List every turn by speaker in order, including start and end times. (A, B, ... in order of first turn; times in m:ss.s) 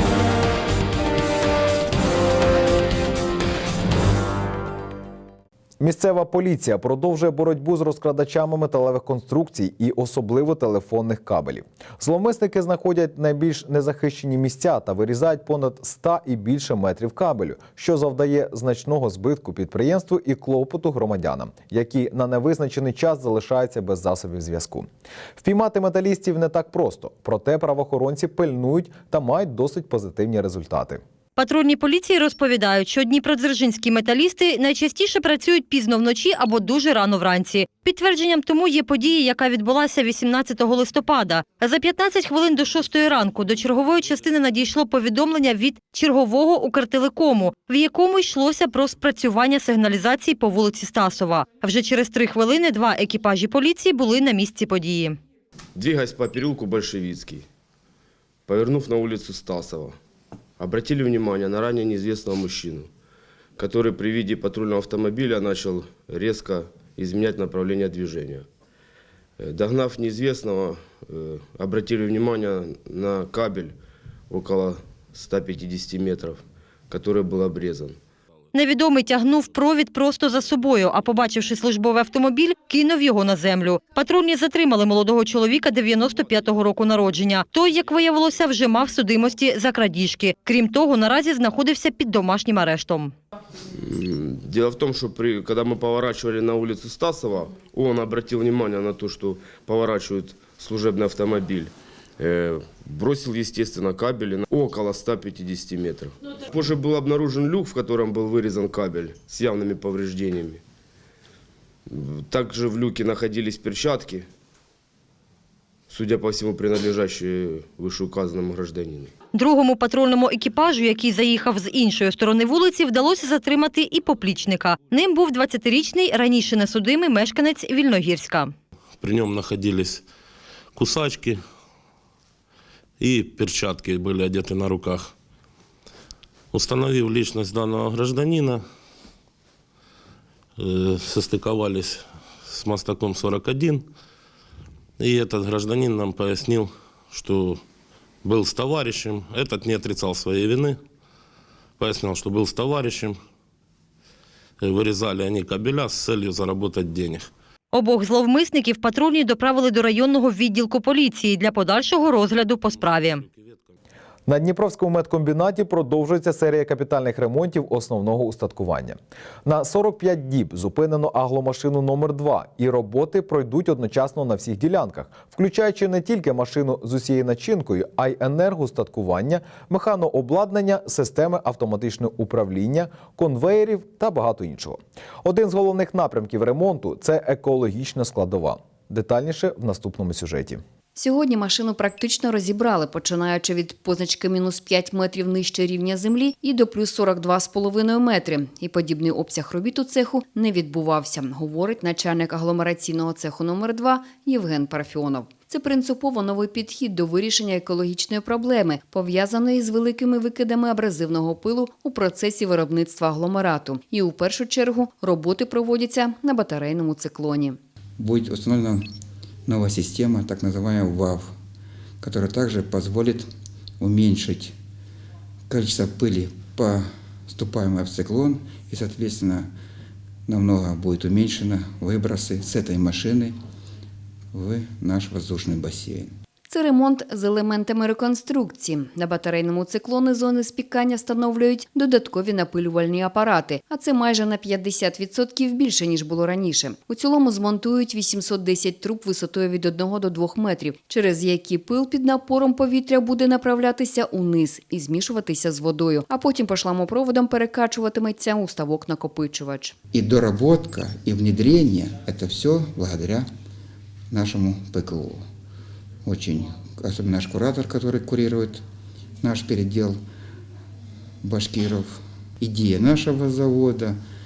0:05.8-0:31.0 A
0:31.4-0:55.2 B
0:55.8-0:57.5 C
0:58.5-1:00.0 C
1:00.6-1:02.9 C
1:03.6-1:08.5 C
1:09.4-1:13.8 C
1:14.3-1:18.0 C
1:18.5-1:33.2 B
1:33.8-1:50.6 C
1:51.9-1:54.3 C
1:55.9-1:59.1 C
1:59.3-2:08.5 B
2:09.0-2:10.0 D
2:10.8-2:11.4 D
2:13.0-2:15.1 D
2:16.5-2:18.6 D
2:20.6-2:23.9 D
2:25.0-2:27.6 D
2:28.2-2:30.8 D
2:31.8-2:33.2 D
2:34.6-2:37.3 D
2:37.7-2:43.2 B
2:44.3-3:10.6 A
3:11.0-3:37.6 E
3:38.0-3:38.9 F
3:39.5-3:41.4 F
3:42.0-3:43.3 F
3:43.8-3:44.6 F
3:45.5-3:49.5 F
3:50.3-3:53.4 F
3:54.3-3:56.2 F
3:56.5-4:19.8 E
4:19.9-4:23.3 F
4:24.1-4:25.3 F
4:26.0-4:28.6 F
4:29.2-4:30.0 F
4:31.2-4:34.0 F